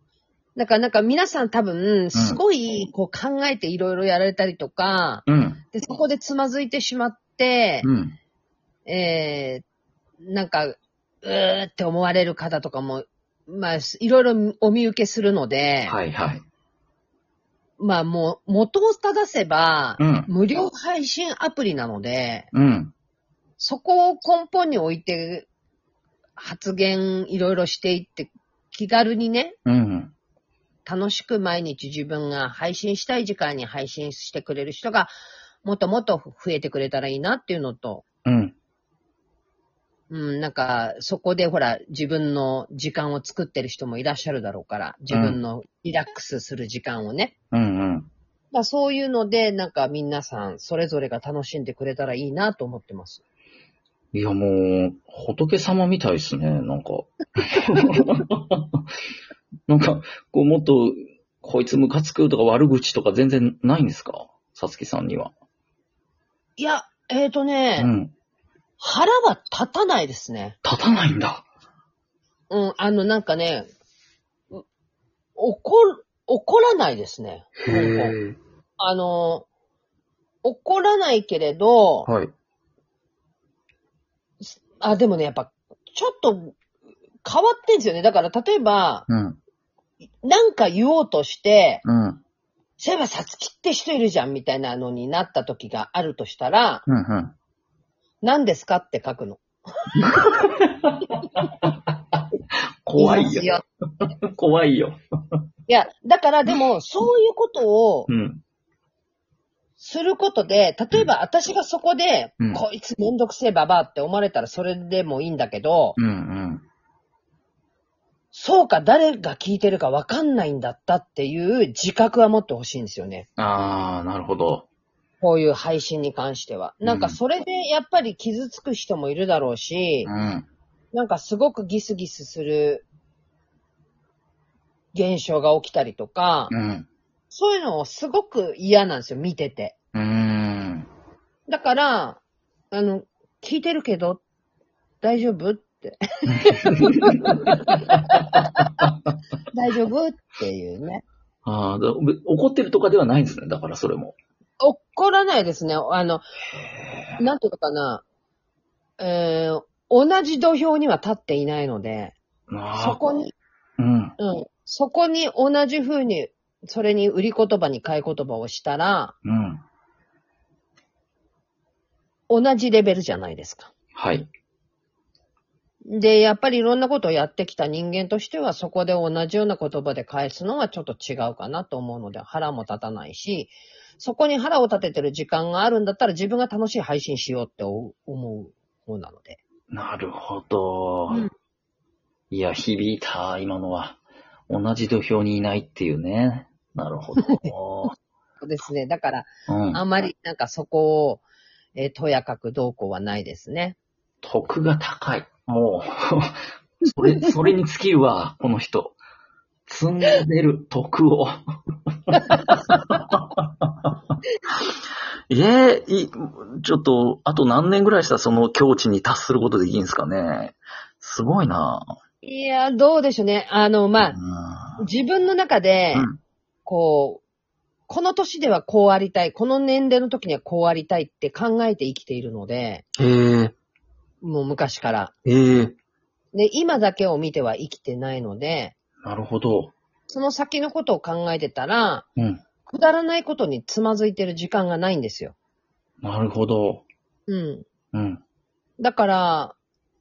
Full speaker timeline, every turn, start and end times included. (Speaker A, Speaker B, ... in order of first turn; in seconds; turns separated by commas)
Speaker A: 0.6-7.9, Speaker B: 2.1-2.4, Speaker B: 5.2-5.6, Speaker B: 7.8-8.2, Speaker A: 8.8-9.6, Speaker A: 10.2-16.0, Speaker B: 15.8-16.4, Speaker A: 17.8-22.5, Speaker B: 20.0-20.3, Speaker B: 22.5-22.9, Speaker A: 23.6-25.5, Speaker A: 26.4-29.6, Speaker B: 29.6-30.1, Speaker A: 30.9-35.1, Speaker A: 35.6-38.0, Speaker B: 38.2-38.5, Speaker A: 40.1-47.3, Speaker B: 45.1-45.4, Speaker B: 47.5-48.1, Speaker A: 48.5-53.2, Speaker B: 54.1-58.8, Speaker B: 59.7-65.3, Speaker A: 66.6-67.9, Speaker B: 67.8-68.1, Speaker A: 68.8-70.6, Speaker B: 70.6-71.4, Speaker A: 72.5-73.7, Speaker A: 75.3-78.2, Speaker B: 77.6-78.4, Speaker A: 78.8-79.5, Speaker A: 80.4-82.1, Speaker B: 82.0-82.3, Speaker A: 84.4-86.5, Speaker A: 87.2-89.1, Speaker B: 89.1-89.4, Speaker A: 90.2-91.8, Speaker B: 91.8-92.2, Speaker A: 92.8-96.8, Speaker B: 96.9-97.3, Speaker A: 98.2-99.4, Speaker B: 100.0-102.3, Speaker B: 102.8-105.4, Speaker A: 103.0-103.6, Speaker A: 105.7-108.1, Speaker B: 108.1-108.4, Speaker A: 109.8-116.0, Speaker B: 116.0-116.6, Speaker A: 118.3-123.3, Speaker B: 123.4-124.7, Speaker A: 125.2-130.1, Speaker B: 126.8-127.2, Speaker B: 130.0-130.5, Speaker A: 130.9-132.8, Speaker A: 134.9-136.5, Speaker B: 136.5-136.9, Speaker A: 137.3-139.7, Speaker B: 139.9-140.9, Speaker A: 141.5-144.2, Speaker A: 145.0-147.6, Speaker B: 146.3-147.4, Speaker B: 147.9-149.1, Speaker A: 148.1-148.4, Speaker A: 149.5-151.0, Speaker B: 151.4-154.2, Speaker A: 154.6-156.2, Speaker B: 156.5-157.2, Speaker A: 157.2-158.0, Speaker A: 159.0-162.1, Speaker B: 162.5-163.0, Speaker A: 162.7-163.3, Speaker B: 163.8-164.1, Speaker A: 164.2-169.1, Speaker B: 169.2-169.6, Speaker A: 172.3-173.7, Speaker B: 173.9-174.3, Speaker A: 175.9-189.4, Speaker B: 189.7-191.2, Speaker B: 192.3-197.9, Speaker A: 198.4-201.2, Speaker B: 199.5-199.8, Speaker A: 201.8-203.8, Speaker B: 204.2-209.0, Speaker B: 209.7-211.4, Speaker B: 212.1-213.9, Speaker B: 215.3-221.9, Speaker A: 222.2-224.2, Speaker B: 224.0-224.8, Speaker A: 224.8-226.1, Speaker B: 225.9-226.2, Speaker A: 226.7-227.2, Speaker A: 227.9-232.8, Speaker B: 233.0-233.5, Speaker A: 234.2-235.1, Speaker B: 235.2-235.7, Speaker A: 236.3-238.7, Speaker B: 239.0-239.7, Speaker A: 240.1-242.1, Speaker B: 242.2-242.4, Speaker A: 242.7-245.3, Speaker B: 246.0-246.8, Speaker A: 247.3-247.6, Speaker B: 247.9-248.2, Speaker A: 248.8-249.6